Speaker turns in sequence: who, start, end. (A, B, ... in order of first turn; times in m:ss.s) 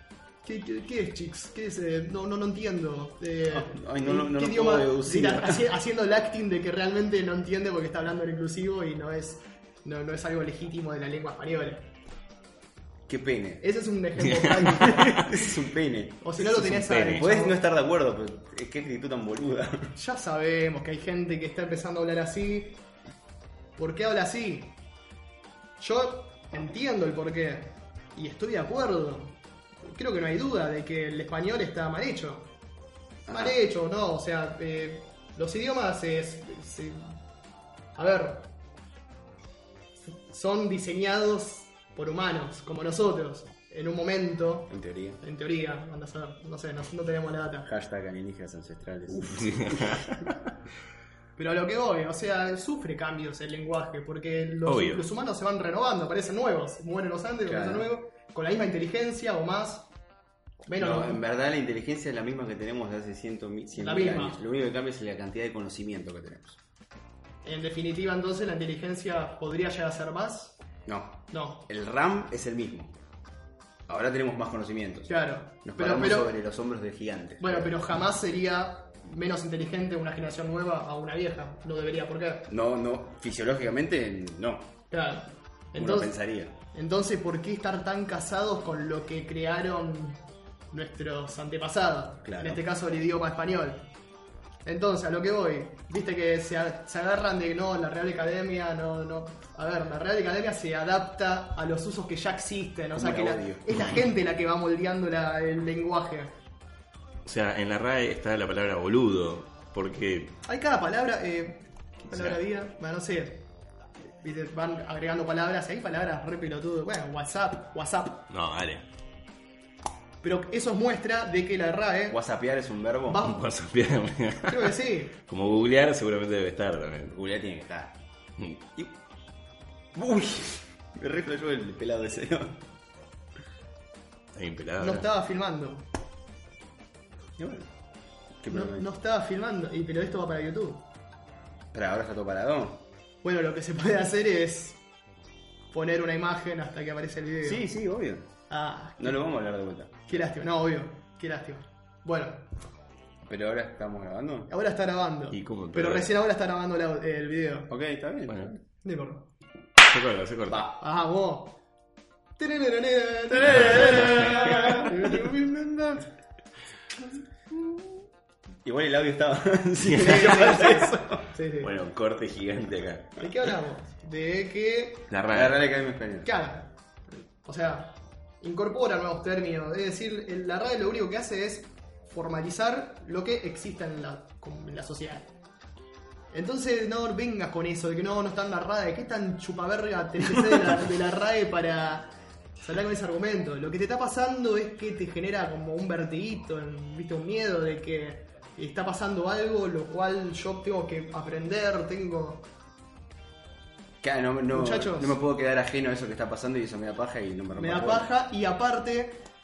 0:00.4-0:11.9 A
0:03.5-0:05.7 B
0:13.1-0:13.6 B
0:13.6-0:15.3 A
0:14.4-0:14.6 C
0:14.8-0:16.3 B
0:16.2-0:17.6 A
0:16.4-0:17.3 C
0:17.1-0:20.0 B
0:20.0-0:22.8 A
0:23.8-0:24.8 A
0:25.8-0:32.5 A
0:33.3-0:33.6 B
0:33.3-0:37.2 A
0:38.0-0:38.5 A
0:40.0-0:47.7 A
0:44.7-0:45.2 B
0:47.6-0:50.1 B
0:49.6-0:50.1 C
0:51.4-0:59.9 A
0:54.6-0:55.0 C
0:57.4-0:57.9 B
1:00.6-1:01.2 A
1:00.7-1:06.6 B
1:03.7-1:04.4 A
1:07.4-1:10.6 A
1:10.9-1:13.0 B
1:11.3-1:11.7 A
1:13.9-1:17.8 B
1:15.1-1:16.4 A
1:17.4-1:22.5 A
1:22.5-1:24.7 B
1:24.9-1:33.9 A
1:25.8-1:26.6 B
1:32.2-1:32.6 B
1:34.6-1:46.3 A
1:42.9-1:43.8 B
1:47.2-1:50.4 C
1:50.5-1:53.5 A
1:52.1-1:52.4 C
1:54.1-1:58.3 A
1:58.3-1:58.9 C
2:00.2-2:02.2 A
2:02.1-2:03.3 B
2:03.1-2:03.4 A
2:03.2-2:07.2 C
2:04.5-2:05.2 A
2:07.1-2:08.0 B
2:09.9-2:12.6 B
2:14.3-2:15.1 C
2:14.8-2:15.8 A
2:17.4-2:17.7 B
2:18.4-2:18.9 B
2:18.5-2:20.8 A
2:21.7-2:22.9 B
2:23.2-2:24.8 A
2:25.7-2:27.7 A
2:27.4-2:28.3 B
2:28.5-2:29.3 A
2:29.0-2:30.0 B
2:30.1-2:32.5 A
2:33.2-2:34.5 B
2:34.5-2:37.7 A
2:35.3-2:36.1 C
2:37.7-2:38.6 B
2:38.3-2:38.5 C
2:38.8-2:39.3 A
2:39.9-2:40.6 C
2:40.5-2:40.8 B
2:40.8-2:41.6 A
2:42.4-2:46.0 A
2:43.4-2:46.0 B
2:43.4-2:44.5 C
2:48.6-2:51.2 B
2:49.8-2:50.7 C
2:50.0-2:51.7 A
2:51.6-2:53.2 C
2:53.2-2:55.1 A
2:55.1-2:55.6 C
2:55.3-2:56.3 B
2:56.2-2:56.7 A
2:57.3-3:05.3 A
3:06.3-3:22.5 A
3:24.0-3:28.1 B
3:24.5-3:25.2 A
3:27.6-3:29.3 A